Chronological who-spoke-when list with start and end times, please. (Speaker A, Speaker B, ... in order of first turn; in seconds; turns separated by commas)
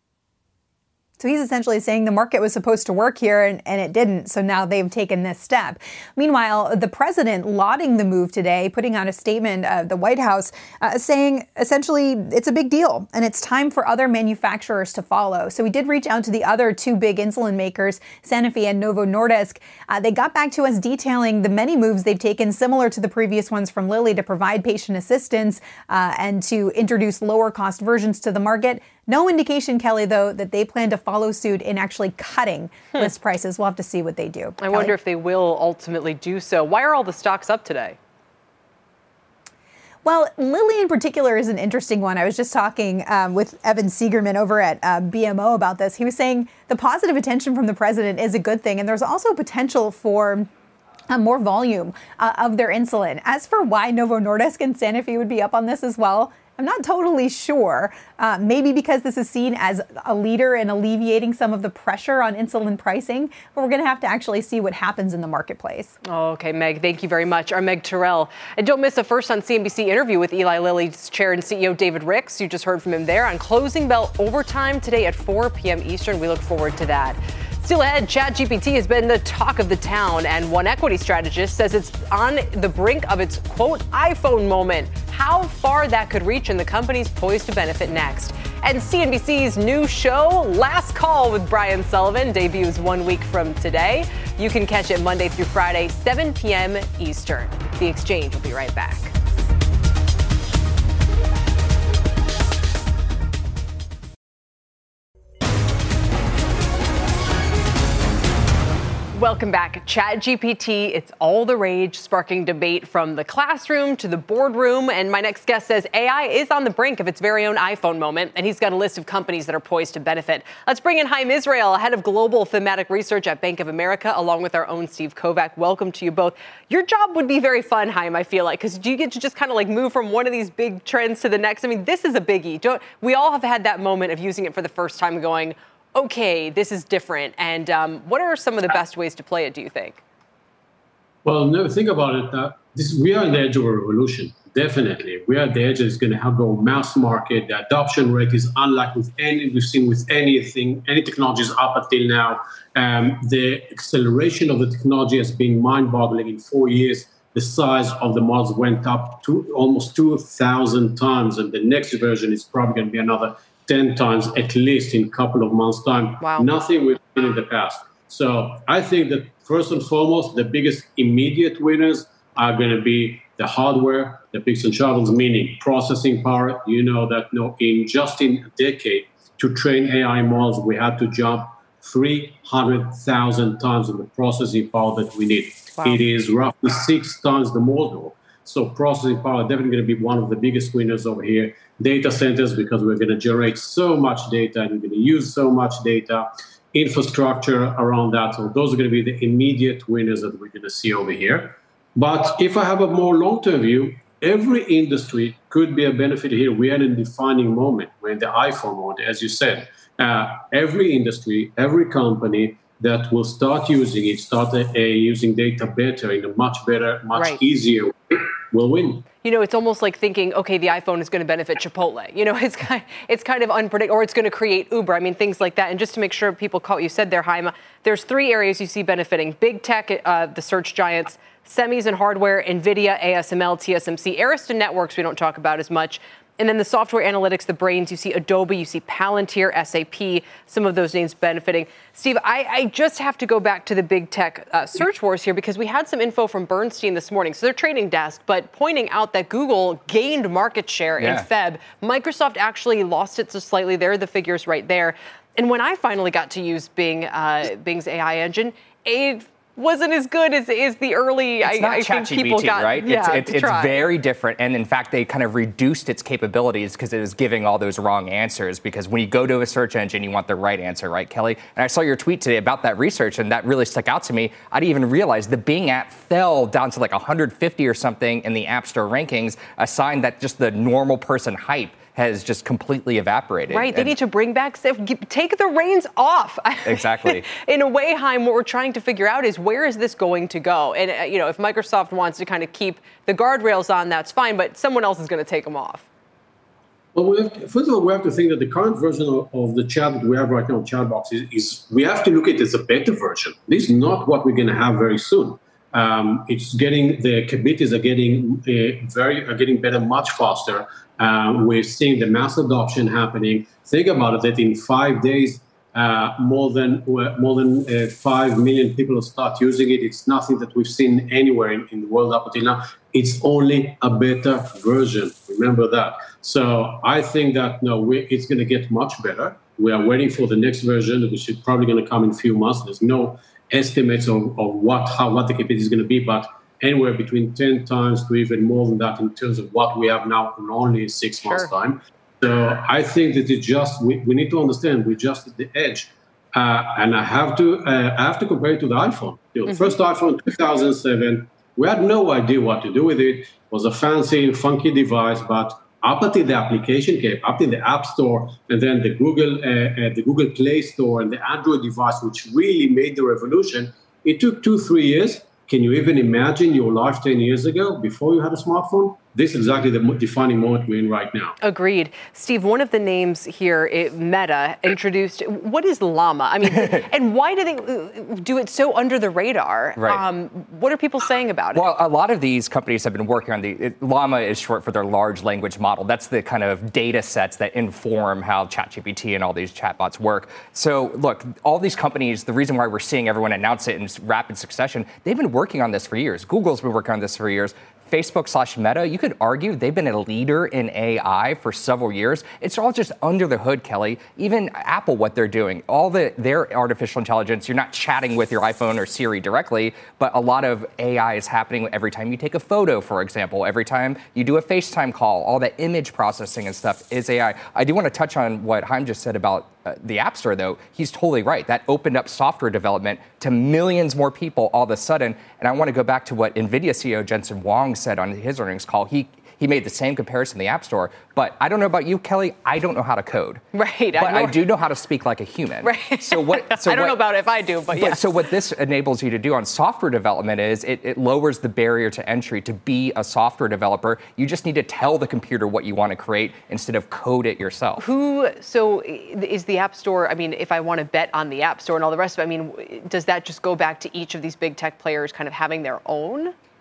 Speaker A: 1.2-34.9, Speaker B: 34.6-38.0, Speaker A: 40.0-50.5, Speaker A: 51.1-66.0, Speaker B: 66.0-99.1, Speaker B: 109.1-140.0, Speaker C: 141.2-219.1, Speaker B: 166.2-166.5, Speaker B: 185.8-186.0, Speaker B: 217.1-217.4, Speaker B: 219.2-263.9, Speaker D: 251.0-251.2, Speaker D: 261.4-283.9, Speaker B: 283.5-295.9, Speaker D: 286.7-287.3, Speaker C: 296.9-371.4, Speaker B: 341.2-341.5, Speaker B: 349.5-349.8, Speaker B: 371.4-381.7, Speaker D: 376.4-376.9, Speaker D: 379.8-380.0, Speaker D: 381.5-433.4, Speaker B: 433.5-434.4, Speaker D: 434.0-437.0, Speaker B: 435.6-438.1, Speaker D: 437.7-447.9, Speaker B: 447.8-456.3